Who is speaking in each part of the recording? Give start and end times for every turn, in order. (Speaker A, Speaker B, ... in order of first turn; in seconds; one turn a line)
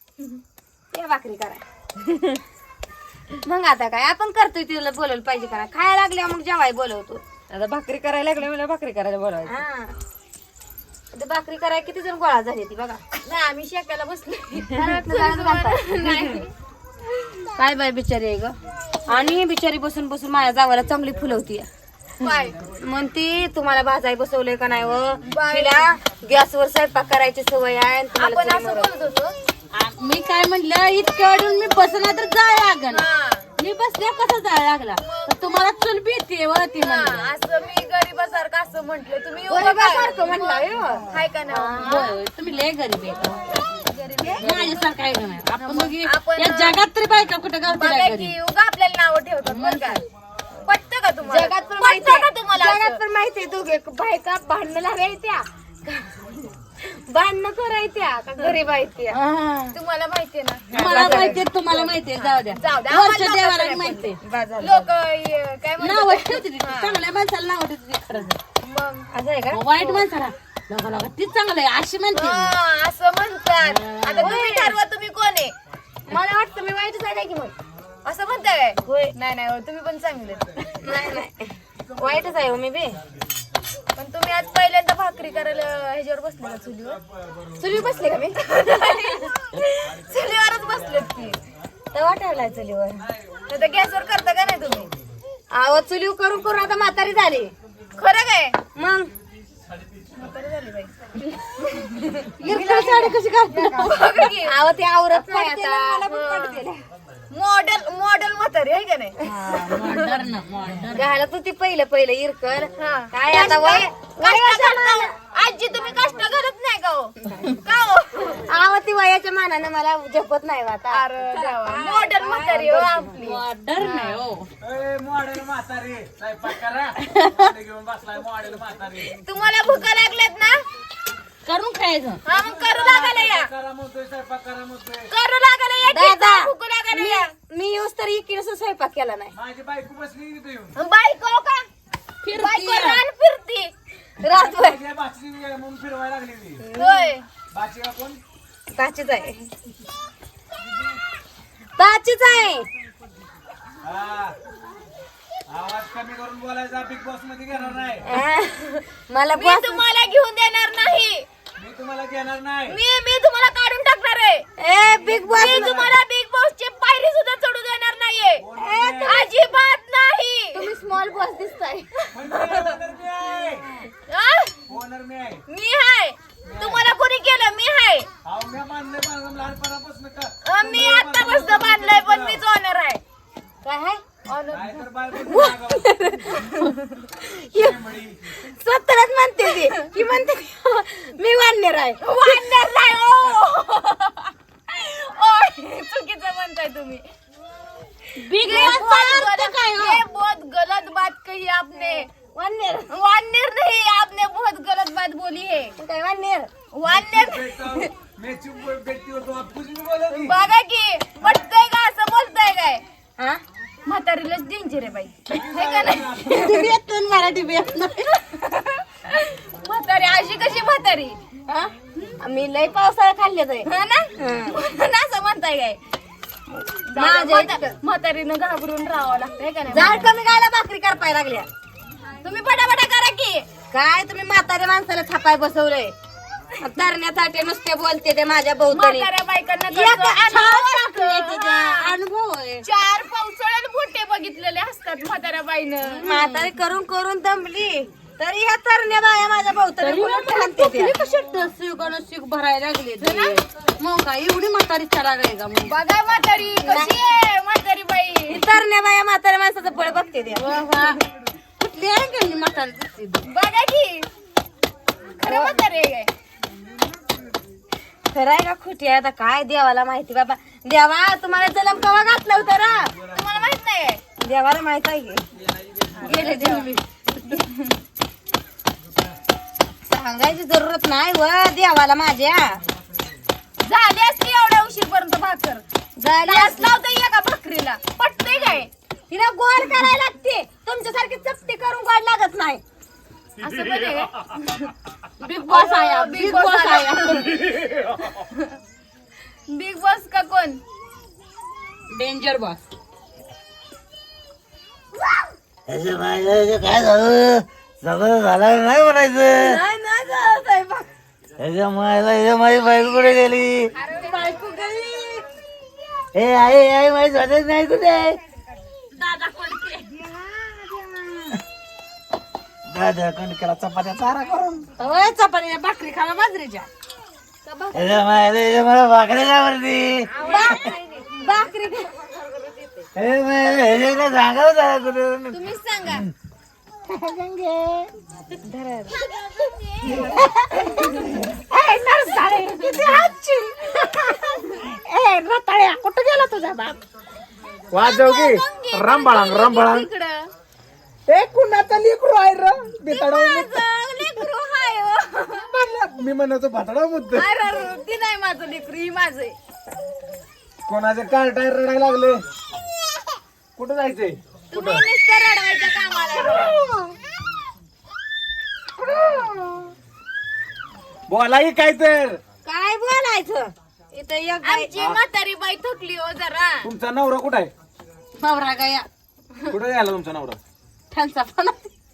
Speaker A: 0.9-1.6
Speaker A: 3.4-9.9
Speaker A: 11.1-13.0
Speaker B: 13.2-16.5
Speaker A: 14.7-16.4
Speaker A: 17.5-18.6
Speaker A: 19.1-21.7
Speaker B: 22.2-22.6
Speaker A: 22.8-28.9
Speaker B: 25.2-25.9
Speaker B: 28.1-29.4
Speaker C: 29.7-33.0
Speaker B: 32.9-33.5
Speaker C: 33.6-37.2
Speaker B: 35.0-35.4
Speaker B: 36.8-42.1
Speaker A: 39.5-42.0
Speaker C: 41.8-43.4
Speaker B: 43.7-44.9
Speaker A: 44.2-44.8
Speaker C: 44.4-48.3
Speaker B: 45.6-46.9
Speaker B: 47.7-50.0
Speaker C: 49.5-50.0
Speaker B: 50.6-53.0
Speaker A: 51.3-56.1
Speaker A: 56.8-59.2
Speaker C: 59.3-59.6
Speaker B: 59.3-67.0
Speaker C: 60.7-64.2
Speaker A: 60.7-61.4
Speaker A: 64.2-64.9
Speaker C: 65.8-68.4
Speaker B: 68.6-69.1
Speaker A: 69.1-69.7
Speaker C: 69.5-72.5
Speaker B: 72.1-75.5
Speaker C: 73.6-74.3
Speaker A: 74.2-74.8
Speaker A: 76.1-77.5
Speaker B: 78.0-80.5
Speaker A: 78.8-79.1
Speaker A: 80.8-83.0
Speaker B: 84.0-87.0
Speaker A: 87.6-88.4
Speaker B: 88.1-91.4
Speaker D: 89.9-90.7
Speaker A: 91.9-93.0
Speaker B: 93.5-94.9
Speaker A: 95.5-97.5
Speaker B: 98.0-98.6
Speaker A: 98.8-99.1
Speaker B: 100.2-104.5
Speaker A: 102.4-103.9
Speaker C: 102.5-103.6
Speaker A: 104.4-106.8
Speaker B: 105.1-106.6
Speaker B: 107.3-110.1
Speaker C: 109.3-111.0
Speaker A: 110.9-115.1
Speaker B: 112.8-118.4
Speaker A: 118.3-123.2
Speaker B: 120.9-124.2
Speaker C: 123.2-124.5
Speaker D: 124.6-129.1
Speaker B: 129.0-130.6
Speaker C: 131.4-132.2
Speaker B: 132.2-133.5
Speaker D: 132.3-135.1
Speaker B: 135.1-137.3
Speaker A: 135.9-139.3
Speaker D: 139.3-140.7
Speaker B: 140.8-141.7
Speaker C: 142.2-143.0
Speaker B: 142.3-143.7
Speaker A: 144.2-144.8
Speaker D: 144.3-146.7
Speaker A: 146.6-147.1
Speaker B: 146.7-147.3
Speaker D: 147.5-148.2
Speaker A: 148.7-149.4
Speaker A: 151.8-152.7
Speaker D: 153.8-154.3
Speaker D: 155.5-158.0
Speaker A: 158.0-159.8
Speaker B: 159.3-161.3
Speaker D: 161.6-162.8
Speaker B: 162.7-164.5
Speaker A: 164.6-166.0
Speaker D: 165.1-165.9
Speaker B: 165.1-168.4
Speaker D: 168.4-169.2
Speaker A: 168.6-169.2
Speaker B: 169.0-170.7
Speaker A: 170.5-171.9
Speaker B: 171.9-172.7
Speaker D: 172.1-173.7
Speaker B: 173.9-174.6
Speaker D: 174.7-175.4
Speaker B: 175.5-178.1
Speaker D: 176.4-176.9
Speaker D: 178.2-182.4
Speaker B: 180.4-183.0
Speaker A: 183.6-184.0
Speaker B: 184.1-185.5
Speaker D: 184.5-185.8
Speaker A: 185.3-186.6
Speaker B: 186.5-187.0
Speaker A: 187.2-187.8
Speaker D: 187.5-188.2
Speaker A: 188.4-192.0
Speaker B: 192.0-197.0
Speaker C: 198.2-200.0
Speaker B: 198.4-202.1
Speaker A: 202.3-202.9
Speaker B: 202.9-205.7
Speaker A: 205.8-206.5
Speaker B: 206.7-207.9
Speaker D: 206.9-210.3
Speaker B: 210.1-212.8
Speaker B: 213.8-216.7
Speaker D: 215.3-216.4
Speaker C: 216.3-218.2
Speaker B: 218.3-221.2
Speaker A: 221.5-224.6
Speaker B: 223.6-225.8
Speaker B: 226.9-230.1
Speaker A: 226.9-227.8
Speaker A: 229.7-231.5
Speaker B: 232.2-233.5
Speaker A: 233.7-235.9
Speaker A: 236.6-239.1
Speaker B: 238.7-241.9
Speaker A: 239.7-241.8
Speaker C: 240.2-242.6
Speaker B: 242.6-246.1
Speaker A: 246.0-250.9
Speaker C: 246.0-246.5
Speaker C: 249.8-255.8
Speaker B: 253.0-253.4
Speaker B: 255.7-258.5
Speaker A: 256.6-256.9
Speaker A: 258.3-260.4
Speaker C: 260.3-261.0
Speaker C: 261.6-263.2
Speaker B: 263.2-264.1
Speaker B: 265.2-266.1
Speaker A: 265.2-265.5
Speaker A: 268.1-272.9
Speaker B: 273.1-274.0
Speaker A: 274.2-275.2
Speaker D: 275.6-275.9
Speaker B: 275.9-276.7
Speaker C: 276.0-277.4
Speaker A: 276.0-276.6
Speaker B: 277.2-277.8
Speaker A: 279.9-282.6
Speaker B: 283.6-285.6
Speaker A: 286.0-286.8
Speaker B: 286.2-288.7
Speaker A: 289.1-292.6
Speaker B: 293.4-294.7
Speaker C: 295.2-297.4
Speaker B: 295.3-298.6
Speaker B: 299.5-300.6
Speaker C: 301.9-302.6
Speaker E: 305.7-309.6
Speaker A: 309.4-310.9
Speaker E: 311.4-313.7
Speaker B: 313.7-314.3
Speaker A: 313.9-315.2
Speaker E: 316.1-318.2
Speaker C: 319.0-319.9
Speaker A: 320.0-321.1
Speaker E: 322.7-324.7
Speaker C: 324.8-326.6
Speaker A: 325.1-325.4
Speaker A: 326.0-326.3
Speaker E: 327.7-330.0
Speaker B: 330.1-331.1
Speaker A: 330.2-331.9
Speaker E: 332.9-335.4
Speaker B: 335.3-336.1
Speaker A: 336.9-337.9
Speaker B: 338.4-339.0
Speaker A: 339.9-346.8
Speaker D: 347.7-349.9
Speaker B: 347.8-350.3
Speaker D: 351.1-353.6
Speaker A: 352.9-355.0
Speaker B: 354.8-355.4
Speaker D: 355.4-357.2
Speaker B: 357.1-359.3
Speaker D: 360.7-362.2
Speaker D: 363.6-364.9
Speaker B: 364.5-366.6
Speaker A: 368.9-369.6
Speaker D: 371.1-372.2
Speaker A: 372.4-374.7
Speaker B: 374.4-376.7
Speaker D: 374.7-375.0
Speaker D: 376.6-377.5
Speaker C: 378.2-378.9
Speaker D: 379.4-380.4
Speaker C: 380.9-381.7